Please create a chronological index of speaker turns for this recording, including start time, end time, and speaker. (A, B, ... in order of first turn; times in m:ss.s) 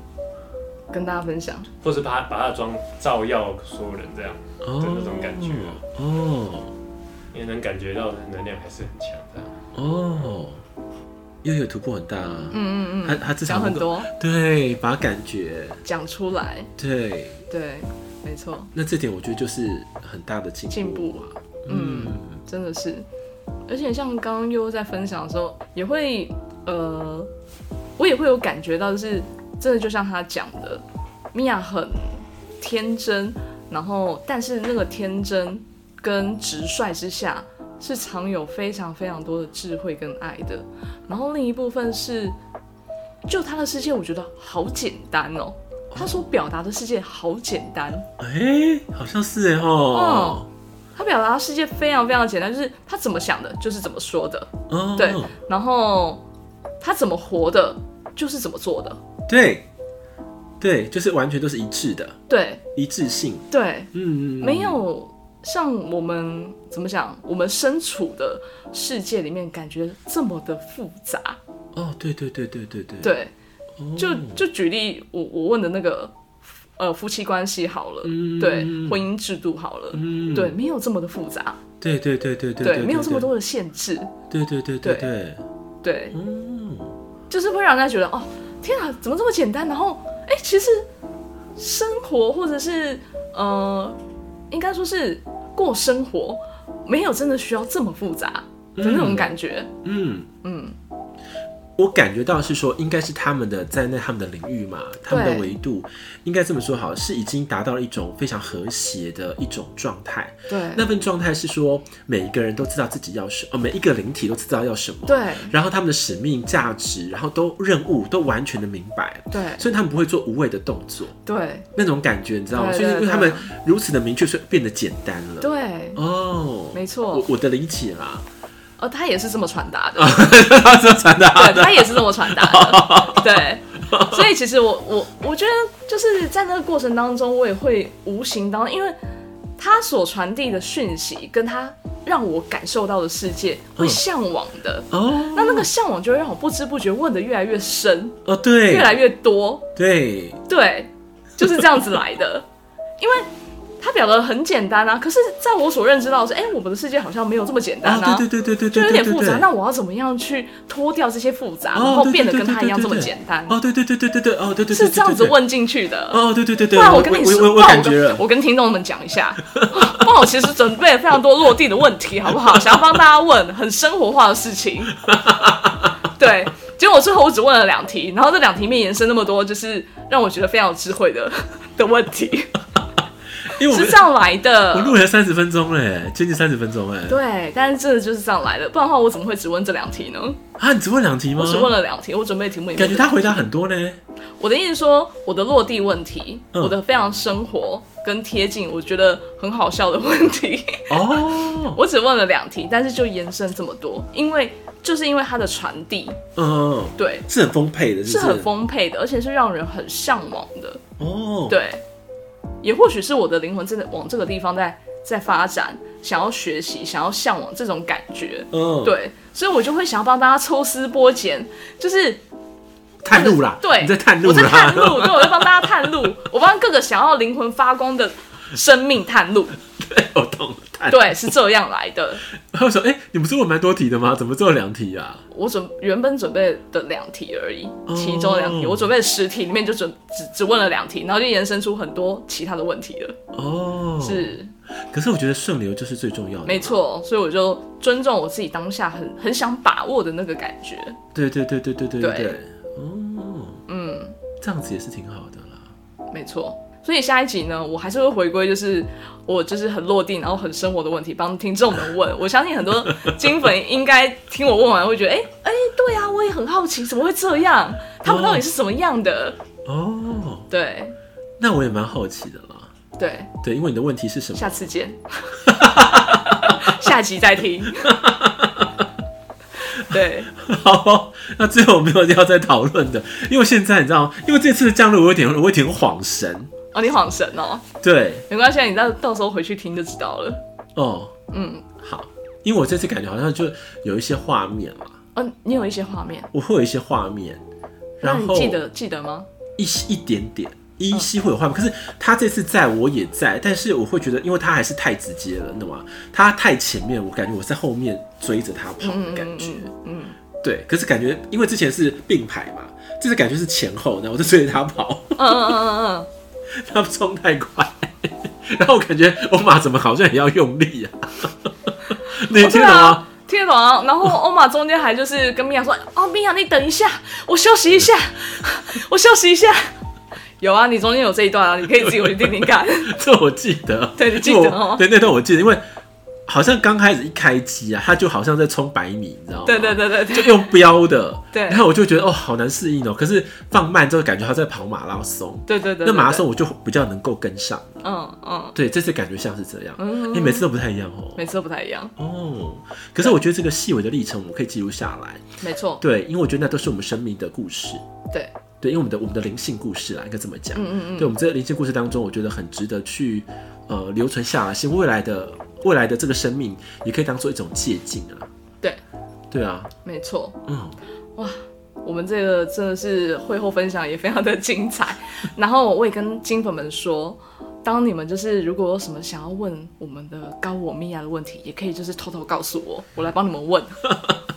0:00.9-0:01.7 A
0:01.8-0:05.8 B
0:04.6-0:06.7 C
0:07.3-0:09.6 B
0:09.8-0:10.6 C
0:11.4-0:15.8 C
0:12.5-0:14.1 A
0:15.8-0:16.7 A
0:16.8-0:17.4 C
0:17.5-0:18.7 A
0:18.7-0:22.4 C
0:20.7-0:23.1 A
0:23.7-0:27.3 A
0:28.0-0:42.4 A
0:43.3-0:48.1 A
0:45.9-0:46.2 C
0:48.2-0:50.5 C
0:49.9-0:50.4 A
0:51.0-0:56.2 A
0:54.7-0:55.3 C
0:56.8-0:59.0 A
0:59.3-0:59.7 C
1:00.6-1:02.2 C
1:02.3-1:02.6 A
1:02.8-1:04.8 C
1:03.5-1:11.4 A
1:11.8-1:13.1 C
1:13.0-1:13.3 A
1:13.8-1:14.4 C
1:14.0-1:16.2 A
1:16.8-1:21.6 A
1:18.0-1:19.0 C
1:19.9-1:20.6 C
1:21.8-1:23.3 C
1:22.6-1:24.2 A
1:24.3-1:25.4 C
1:24.8-1:25.1 A
1:25.8-1:26.2 A
1:26.1-1:27.0 C
1:27.3-1:30.9 A
1:31.6-1:34.0 A
1:34.5-1:39.7 A
1:38.8-1:40.3 C
1:40.4-1:40.8 A
1:41.8-2:01.2 C
1:45.1-1:45.6 A
1:50.5-1:50.8 A
1:55.1-1:55.6 A
1:59.3-1:59.6 A
2:01.2-2:01.7 A
2:01.8-2:08.2 C
2:02.5-2:03.5 A
2:05.4-2:06.0 A
2:06.7-2:07.3 A
2:08.8-2:10.4 A
2:10.0-2:13.3 C
2:11.4-2:19.0 A
2:13.9-2:14.3 C
2:19.6-2:29.7 A
2:24.9-2:25.7 C
2:28.3-2:29.0 C
2:29.8-2:30.4 C
2:30.5-2:32.5 A
2:31.4-2:31.8 C
2:33.0-2:33.3 A
2:33.8-2:43.6 A
2:37.8-2:39.5 C
2:41.7-2:45.4 C
2:44.7-2:55.0 A
2:46.1-2:48.2 C
2:55.1-2:55.8 C
2:56.1-3:02.5 A
3:03.5-3:04.1 C
3:03.6-3:05.0 A
3:04.7-3:07.2 C
3:07.1-3:10.4 A
3:10.6-3:11.8 C
3:11.4-3:13.4 A
3:12.7-3:14.0 C
3:14.4-3:26.2 A
3:20.9-3:21.8 C
3:26.4-3:28.5 C
3:27.0-3:27.3 A
3:28.1-3:30.8 A
3:31.0-3:31.6 C
3:31.5-3:31.8 A
3:32.6-3:42.2 A
3:38.5-3:39.0 C
3:43.0-3:45.7 C
3:43.1-3:49.6 A
3:49.8-3:51.2 C
3:50.9-3:52.2 A
3:52.5-3:55.2 C
3:55.3-4:03.2 A
3:57.9-3:58.9 C
4:03.3-4:04.4 C
4:04.0-4:04.5 A
4:04.9-4:06.8 C
4:06.4-4:11.0 A
4:11.2-4:13.6 C
4:12.0-4:12.4 A
4:13.7-4:14.2 A
4:14.4-4:15.7 C
4:16.1-4:29.4 A
4:28.0-4:28.5 C
4:29.6-4:30.5 C
4:30.5-4:31.0 A
4:31.4-4:32.7 C
4:33.0-4:33.3 A
4:33.4-4:34.6 C
4:34.4-4:37.9 A
4:35.5-4:36.5 C
4:37.8-4:38.7 C
4:39.8-4:40.3 A
4:39.9-4:46.5 C
4:46.7-4:47.7 A
4:47.8-4:48.3 C
4:48.3-4:50.4 A
4:50.8-4:51.1 C
4:51.3-4:51.7 A
4:51.8-4:54.9 C
4:55.2-4:56.3 A
4:56.3-4:57.4 C
4:58.0-4:58.6 C
4:58.0-4:59.3 A
4:59.6-5:09.7 C
5:08.8-5:10.2 A
5:10.4-5:15.4 C
5:15.2-5:16.1 A
5:16.5-5:21.3 C
5:22.1-5:23.0 C
5:22.1-5:29.6 A
5:30.4-5:33.0 A
5:31.8-5:35.6 C
5:34.0-5:34.8 A
5:36.3-5:47.8 C
5:39.4-5:40.5 A
5:41.3-5:41.6 A
5:45.5-5:46.3 A
5:47.8-5:48.6 A
5:48.6-5:51.2 C
5:49.8-5:50.5 A
5:51.2-5:51.9 A
5:52.0-5:55.2 C
5:55.4-5:55.8 A
5:55.8-5:57.8 C
5:58.6-6:08.3 C
6:00.5-6:01.2 A
6:09.3-6:09.7 C
6:09.8-6:10.4 A
6:10.5-6:10.8 C
6:11.2-6:23.8 A